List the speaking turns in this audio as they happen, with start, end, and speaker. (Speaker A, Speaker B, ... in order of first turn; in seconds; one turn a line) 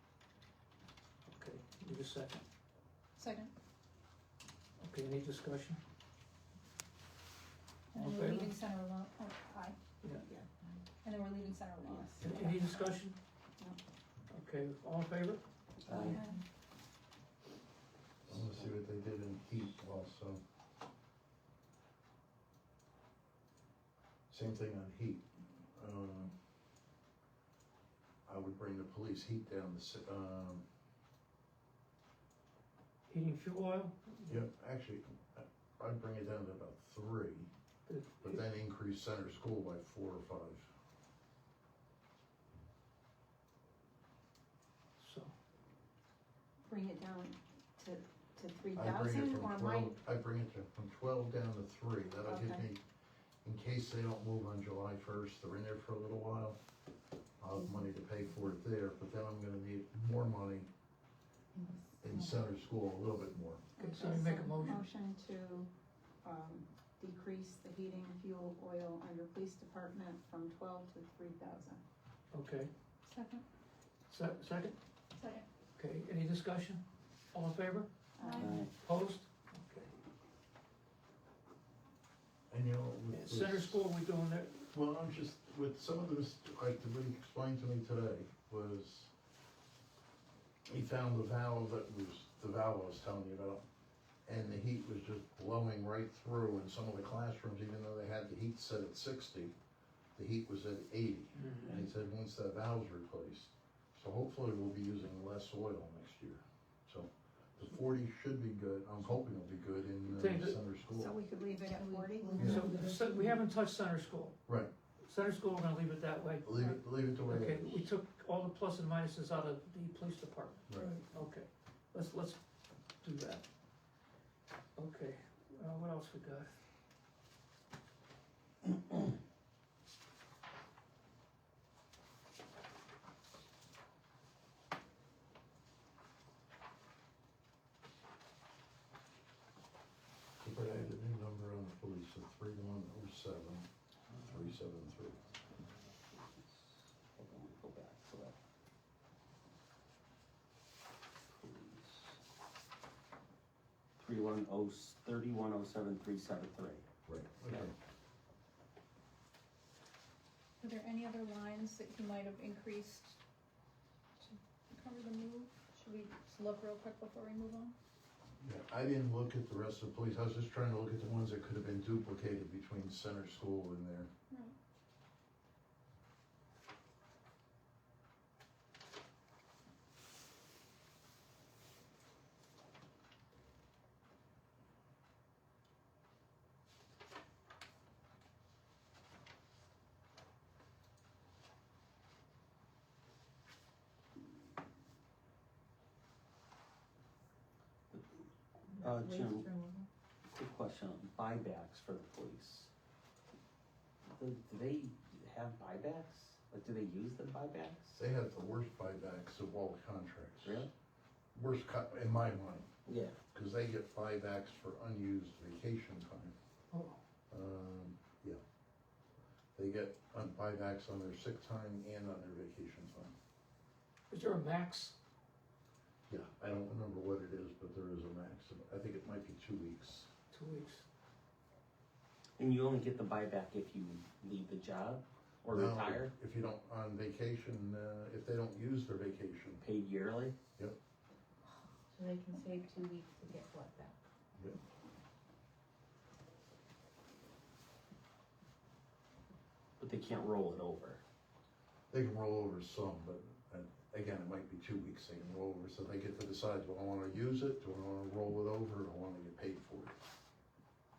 Speaker A: 1.2-2.4
Speaker B: 3.1-3.5
Speaker A: 4.8-5.8
Speaker B: 7.9-9.8
Speaker A: 7.9-8.5
Speaker C: 10.2-10.5
Speaker B: 11.0-13.0
Speaker C: 11.8-12.6
Speaker A: 12.2-13.2
Speaker A: 14.3-15.4
Speaker D: 15.8-16.2
Speaker C: 15.9-16.2
Speaker B: 16.0-16.4
Speaker E: 16.1-16.3
Speaker D: 18.3-18.7
Speaker F: 18.3-20.4
Speaker F: 24.3-26.3
Speaker F: 28.2-30.6
Speaker A: 33.1-34.4
Speaker F: 34.3-37.5
Speaker A: 37.9-38.4
Speaker F: 38.2-40.7
Speaker A: 45.0-45.3
Speaker C: 46.7-49.9
Speaker F: 48.7-52.8
Speaker C: 52.2-52.6
Speaker F: 53.4-56.6
Speaker F: 57.4-60.7
Speaker E: 61.5-62.4
Speaker F: 62.0-63.6
Speaker B: 63.8-64.8
Speaker C: 63.8-65.7
Speaker A: 63.8-64.8
Speaker C: 66.2-71.8
Speaker A: 72.3-72.7
Speaker B: 73.0-73.4
Speaker A: 74.1-74.8
Speaker B: 75.1-75.5
Speaker A: 75.8-77.9
Speaker C: 78.2-78.7
Speaker B: 78.2-78.7
Speaker D: 78.3-78.7
Speaker A: 78.7-79.9
Speaker F: 82.5-83.8
Speaker A: 83.1-84.7
Speaker F: 84.7-89.1
Speaker F: 90.7-93.6
Speaker F: 94.2-99.5
Speaker F: 100.1-111.1
Speaker A: 101.4-101.8
Speaker A: 110.1-110.6
Speaker C: 110.9-112.5
Speaker E: 111.7-113.4
Speaker F: 112.4-112.7
Speaker A: 112.4-114.4
Speaker A: 115.0-122.4
Speaker F: 116.4-117.8
Speaker F: 120.7-121.0
Speaker A: 123.0-123.4
Speaker A: 124.8-126.5
Speaker F: 140.4-143.7
Speaker F: 144.3-145.2
Speaker D: 145.5-148.3
Speaker D: 151.3-152.2
Speaker D: 154.0-156.8
Speaker F: 157.1-157.7
Speaker B: 160.6-163.2
Speaker B: 164.2-167.7
Speaker F: 168.4-174.1
Speaker B: 174.3-174.5
Speaker E: 198.7-199.9
Speaker D: 198.8-199.5
Speaker D: 200.3-202.7
Speaker D: 204.1-207.9
Speaker F: 207.9-210.7
Speaker D: 210.4-210.7
Speaker F: 211.3-212.7
Speaker D: 212.8-213.2
Speaker F: 213.3-216.3
Speaker A: 216.7-217.0
Speaker F: 217.3-218.4
Speaker F: 219.6-223.1
Speaker A: 224.1-224.9
Speaker F: 226.1-230.1
Speaker A: 230.3-230.8
Speaker D: 232.4-236.1
Speaker F: 235.5-239.6
Speaker D: 239.6-240.3
Speaker E: 241.9-243.9
Speaker D: 249.8-251.0
Speaker F: 251.9-259.9